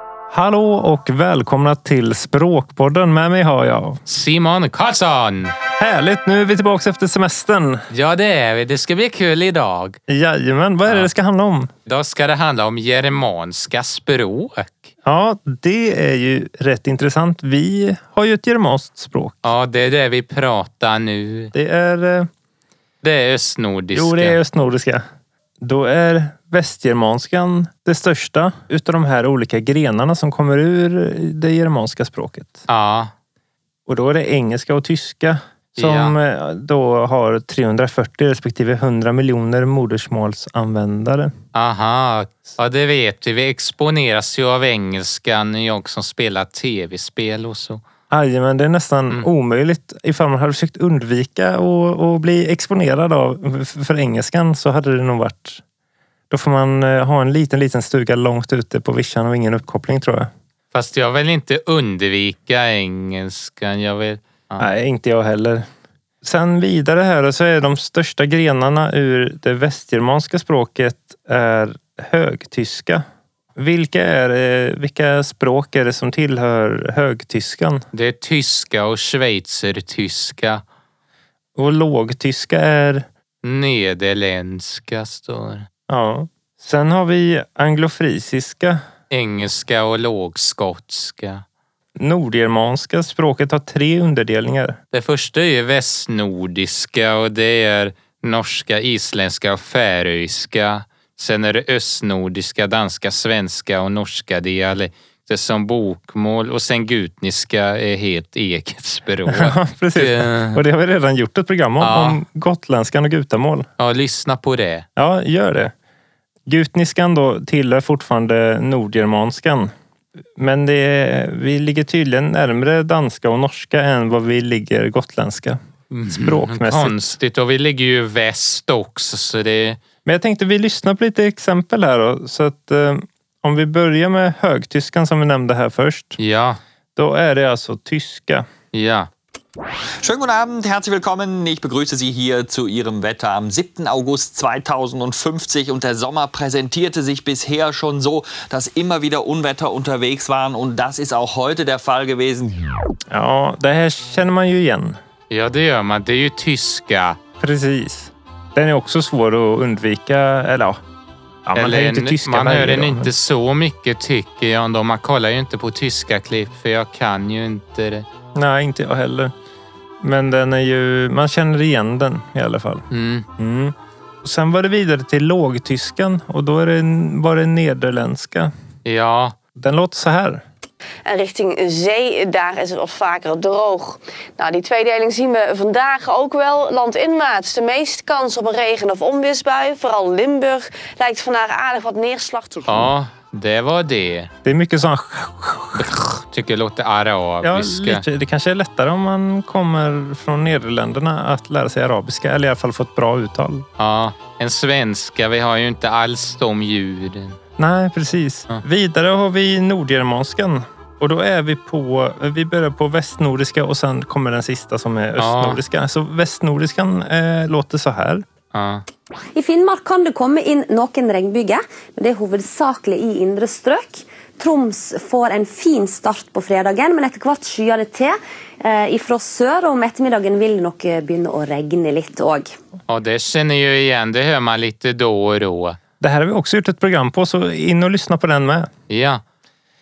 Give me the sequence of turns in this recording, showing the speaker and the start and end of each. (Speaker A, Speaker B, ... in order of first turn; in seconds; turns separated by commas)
Speaker A: 0.3-4.0, Speaker B: 4.1-5.5, Speaker A: 5.8-7.8, Speaker B: 7.9-10.0, Speaker A: 10.1-11.7, Speaker B: 11.9-14.9, Speaker A: 15.0-19.5, Speaker B: 19.4-21.5, Speaker A: 21.5-22.3, Speaker B: 23.0-24.4, Speaker A: 23.9-25.0, Speaker A: 25.6-32.6, Speaker B: 32.7-33.1, Speaker A: 33.9-41.3, Speaker B: 35.8-36.1, Speaker B: 41.5-47.8, Speaker A: 48.1-55.6, Speaker A: 56.3-60.3, Speaker B: 60.7-64.7, Speaker A: 64.6-65.7, Speaker A: 66.2-73.0, Speaker A: 73.6-77.8, Speaker B: 77.9-80.6, Speaker A: 81.6-83.0, Speaker B: 83.4-85.7, Speaker A: 85.9-88.8, Speaker B: 89.1-91.4, Speaker A: 92.0-94.8, Speaker B: 94.9-110.6, Speaker A: 109.2-113.7, Speaker B: 111.8-112.2, Speaker B: 113.8-114.9, Speaker A: 115.0-115.7, Speaker A: 116.5-119.7, Speaker A: 120.4-127.2, Speaker B: 125.9-129.8, Speaker A: 130.1-136.2, Speaker B: 136.2-136.6, Speaker A: 137.0-138.4, Speaker B: 138.7-139.1, Speaker C: 140.0-152.6, Speaker A: 153.1-155.0, Speaker B: 155.3-157.2, Speaker A: 157.4-160.8, Speaker A: 161.5-163.1, Speaker B: 161.6-168.1, Speaker A: 168.3-169.3, Speaker A: 170.0-172.8, Speaker B: 172.9-173.3, Speaker A: 173.4-178.5, Speaker B: 178.8-179.4, Speaker A: 179.6-180.4, Speaker D: 181.1-192.7, Speaker B: 192.7-194.3, Speaker A: 194.4-195.9, Speaker B: 195.8-198.0, Speaker A: 197.4-203.7, Speaker B: 203.8-207.4, Speaker A: 207.6-218.2, Speaker B: 215.2-215.6, Speaker B: 218.5-218.8, Speaker E: 219.3-232.5, Speaker B: 232.9-235.8, Speaker A: 236.0-238.7, Speaker B: 238.9-239.2